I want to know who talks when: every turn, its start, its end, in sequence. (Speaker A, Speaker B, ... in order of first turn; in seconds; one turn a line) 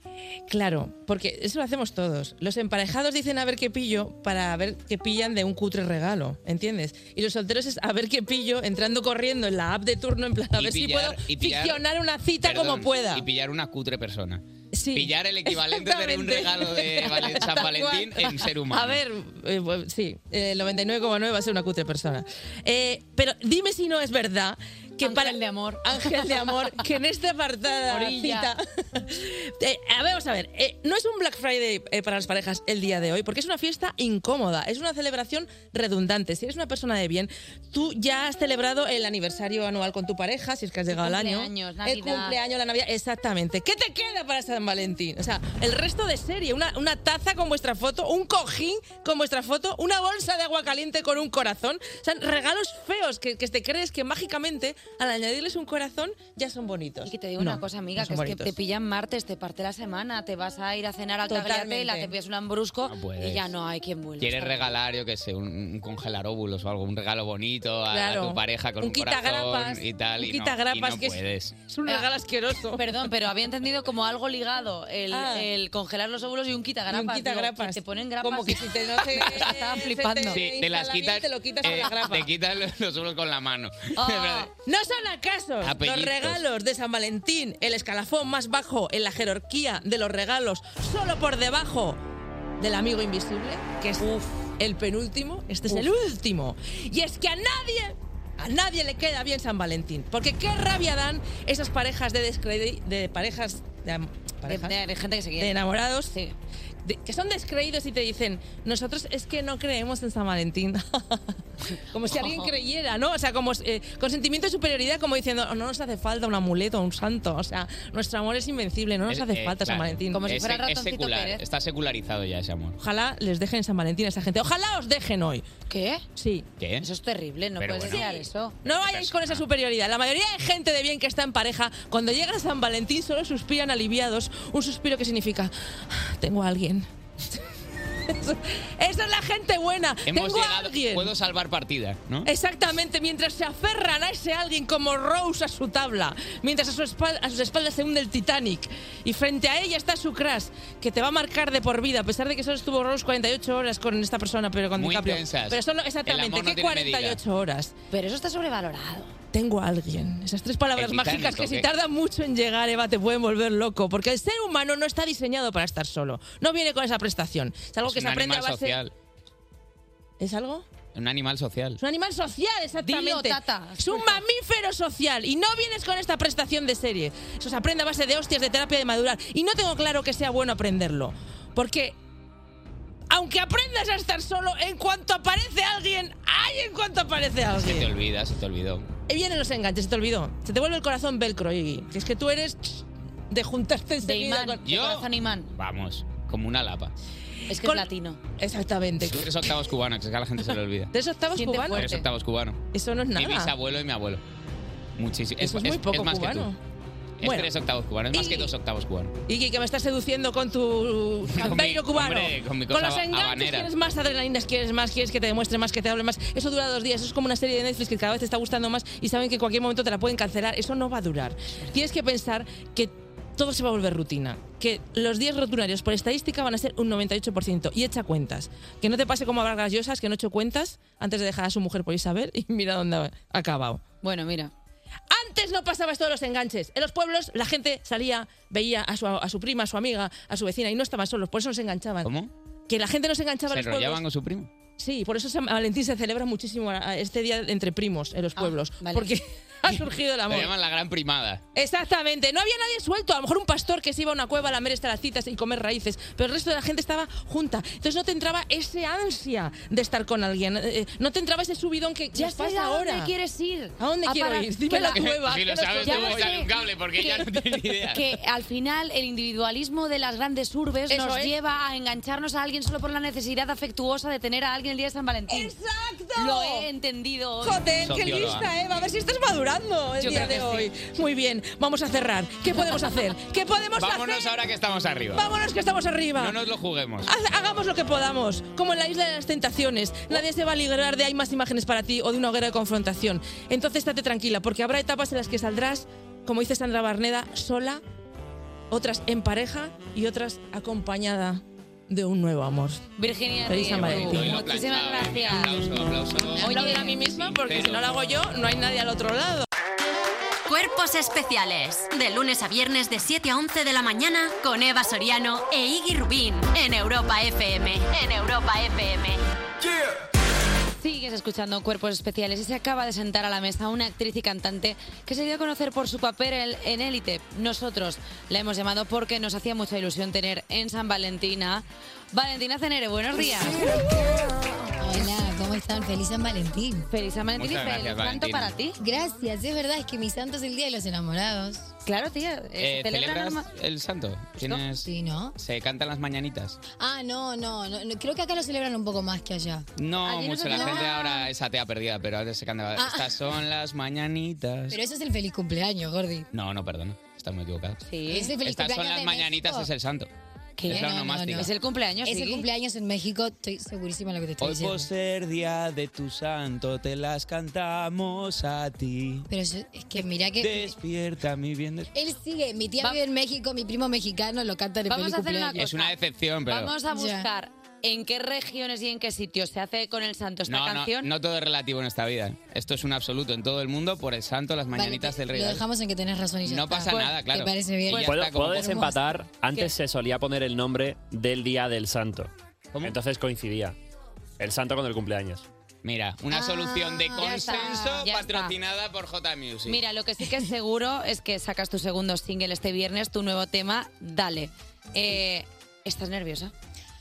Speaker A: 0.5-13.2
Speaker B: 10.5-11.8
Speaker B: 12.4-19.0
Speaker A: 14.7-58.5
Speaker C: 25.0-26.8
Speaker C: 27.9-28.5
Speaker C: 40.9-42.4
Speaker C: 57.0-64.7
Speaker A: 61.3-62.1
Speaker B: 62.9-63.5
Speaker B: 64.2-71.6
Speaker A: 67.9-73.0
Speaker C: 72.8-80.4
Speaker A: 75.1-75.5
Speaker A: 76.9-82.3
Speaker B: 80.3-84.5
Speaker C: 84.0-84.5
Speaker A: 84.6-92.0
Speaker B: 85.6-86.4
Speaker A: 92.6-104.8
Speaker C: 104.4-106.3
Speaker A: 105.4-106.1
Speaker A: 106.8-111.2
Speaker A: 111.8-120.2
Speaker C: 112.1-112.5
Speaker B: 119.1-122.8
Speaker C: 120.1-121.4
Speaker A: 122.8-125.4
Speaker C: 125.7-126.0
Speaker A: 126.2-126.5
Speaker B: 126.6-126.9
Speaker C: 126.8-128.6
Speaker B: 127.6-129.4
Speaker A: 127.9-136.8
Speaker A: 138.1-141.1
Speaker B: 140.0-142.3
Speaker A: 142.2-157.7
Speaker B: 154.8-157.2
Speaker C: 157.9-159.2
Speaker A: 159.3-168.8
Speaker B: 160.8-161.7
Speaker B: 167.8-168.9
Speaker A: 170.2-170.6
Speaker B: 170.9-171.8
Speaker A: 171.8-181.9
Speaker C: 172.8-174.2
Speaker A: 183.1-187.9
Speaker B: 187.6-188.8
Speaker A: 189.1-194.6
Speaker C: 194.0-195.5
Speaker B: 194.6-196.9
Speaker C: 197.5-198.2
Speaker A: 197.5-199.5
Speaker B: 199.0-200.9
Speaker A: 200.9-201.9
Speaker C: 201.3-202.1
Speaker B: 201.7-202.6
Speaker A: 202.7-203.5
Speaker B: 203.1-204.2
Speaker B: 205.0-206.5
Speaker A: 205.4-206.6
Speaker B: 207.2-209.1
Speaker A: 207.2-207.5
Speaker A: 208.1-208.5
Speaker A: 209.3-233.8
Speaker B: 211.3-213.7
Speaker C: 234.0-234.5
Speaker A: 235.1-242.1
Speaker B: 242.0-242.3
Speaker A: 242.7-244.0
Speaker B: 243.5-244.5
Speaker A: 244.8-250.5
Speaker C: 248.3-249.1
Speaker B: 249.7-251.4
Speaker A: 251.5-263.1
Speaker C: 262.1-265.1
Speaker A: 263.8-266.5
Speaker B: 264.9-268.0
Speaker C: 265.8-266.5
Speaker C: 267.0-267.2
Speaker C: 267.9-275.5
Speaker A: 270.9-271.3
Speaker A: 275.3-276.7
Speaker C: 276.1-277.7
Speaker A: 277.4-284.3
Speaker B: 277.8-278.5
Speaker C: 280.0-280.7
Speaker B: 283.8-285.2
Speaker A: 285.1-286.4
Speaker B: 286.2-287.1
Speaker A: 287.1-297.8
Speaker A: 298.7-302.8
Speaker C: 303.0-305.7
Speaker A: 303.4-304.4
Speaker B: 303.7-307.9
Speaker A: 306.3-309.5
Speaker C: 306.4-307.0
Speaker D: 310.4-319.2
Speaker C: 320.8-333.8
Speaker E: 333.1-333.9
Speaker E: 334.8-336.9
Speaker C: 336.9-338.8
Speaker B: 337.4-338.5
Speaker E: 338.8-341.7
Speaker C: 341.8-343.5
Speaker B: 342.6-346.6
Speaker E: 344.8-345.4
Speaker E: 346.8-349.7
Speaker B: 349.8-354.8
Speaker C: 350.0-351.0
Speaker E: 350.5-351.2
Speaker E: 352.8-353.1
Speaker E: 354.7-356.3
Speaker B: 356.3-357.8
Speaker C: 357.8-358.3
Speaker E: 358.1-359.7
Speaker B: 358.4-360.1
Speaker C: 360.6-362.4
Speaker B: 360.7-361.5
Speaker E: 360.7-361.5
Speaker E: 362.0-364.9
Speaker B: 364.4-369.3
Speaker E: 369.3-370.7
Speaker B: 370.4-371.9
Speaker E: 371.9-375.6
Speaker C: 374.9-375.9
Speaker B: 375.6-376.7
Speaker C: 376.5-381.1
Speaker E: 376.9-377.3
Speaker B: 380.5-385.6
Speaker E: 384.7-389.1
Speaker B: 386.4-388.9
Speaker F: 387.9-392.3
Speaker F: 392.8-393.8
Speaker F: 394.4-395.4
Speaker B: 395.8-399.8
Speaker E: 396.3-397.9
Speaker C: 397.1-398.6
Speaker C: 399.6-406.5